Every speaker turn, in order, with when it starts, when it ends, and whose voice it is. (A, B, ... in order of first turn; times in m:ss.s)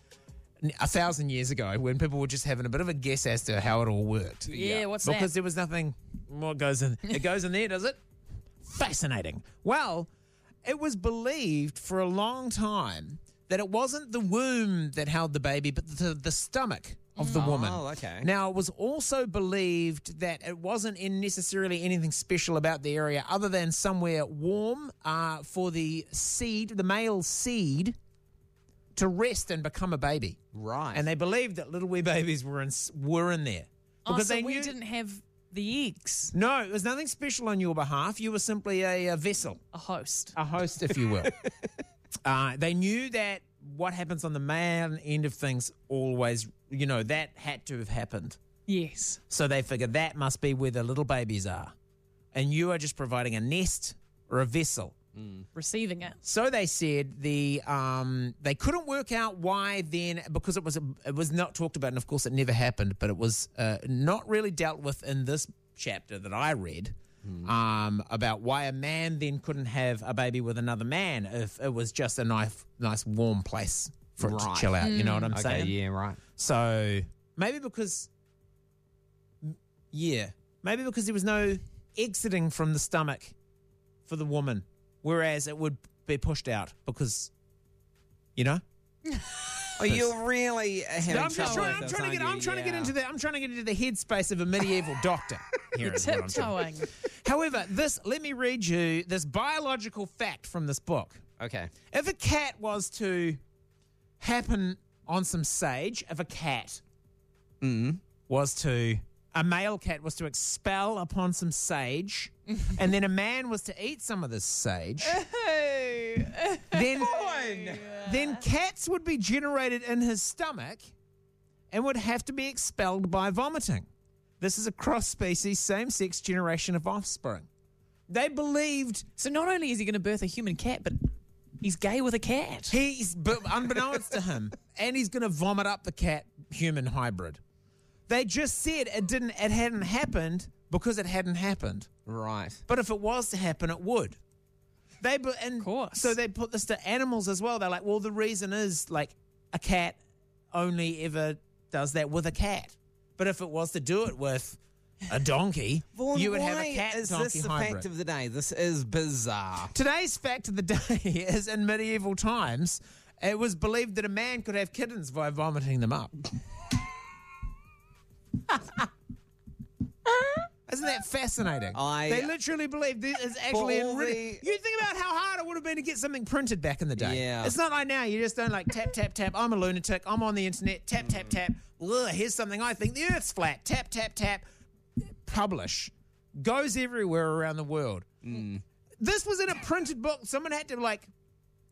0:00.6-0:08.0 A
0:04.5-0:04.9 B
0:04.5-0:05.3 C
0:08.6-0:10.1 A
0:10.6-0:28.0 A
0:17.2-0:17.5 C
0:17.4-0:18.3 B
0:29.0-0:30.4 A
0:30.5-0:31.1 B
0:30.9-0:34.7 A
0:34.1-0:36.3 C
0:36.3-0:39.6 A
0:39.7-0:40.4 C
0:40.4-0:41.3 A
0:42.2-0:48.4 A
0:48.7-0:49.2 C
0:49.3-0:51.7 A
0:52.3-0:55.0 A
0:55.2-0:55.4 B
0:55.5-0:56.2 C
0:56.2-1:15.8 A
1:14.2-1:16.2 B
1:14.8-1:15.3 C
1:16.4-1:18.1 A
1:19.4-1:23.4 A
1:24.1-1:27.3 A
1:28.4-1:28.6 A
1:29.8-1:32.9 B
1:29.8-1:30.1 A
1:31.0-1:41.2 A
1:31.2-1:31.8 C
1:35.8-1:36.9 C
1:41.4-1:41.7 B
1:41.9-1:43.4 A
1:44.2-1:46.8 A
1:47.6-1:48.0 B
1:48.3-1:55.2 A
1:55.0-1:58.4 C
1:56.7-1:57.2 A
1:57.0-1:58.0 B
1:58.0-2:00.9 A
2:01.7-2:03.9 A
2:04.4-2:07.5 A
2:08.1-2:09.1 A
2:09.2-2:11.1 C
2:11.6-2:12.8 C
2:12.7-2:17.4 A
2:18.1-2:21.9 A
2:22.1-2:22.6 B
2:22.7-2:24.2 A
2:25.0-2:30.0 A
2:25.6-2:26.2 C
2:30.5-2:37.9 A
2:36.0-2:39.7 B
2:39.7-2:46.3 A
2:48.5-2:48.8 A
2:50.7-3:04.4 A
2:51.7-2:52.3 B
2:53.5-2:54.4 B
2:57.0-2:57.6 B
3:05.0-3:08.1 A
3:08.2-3:08.6 B
3:09.0-3:11.1 A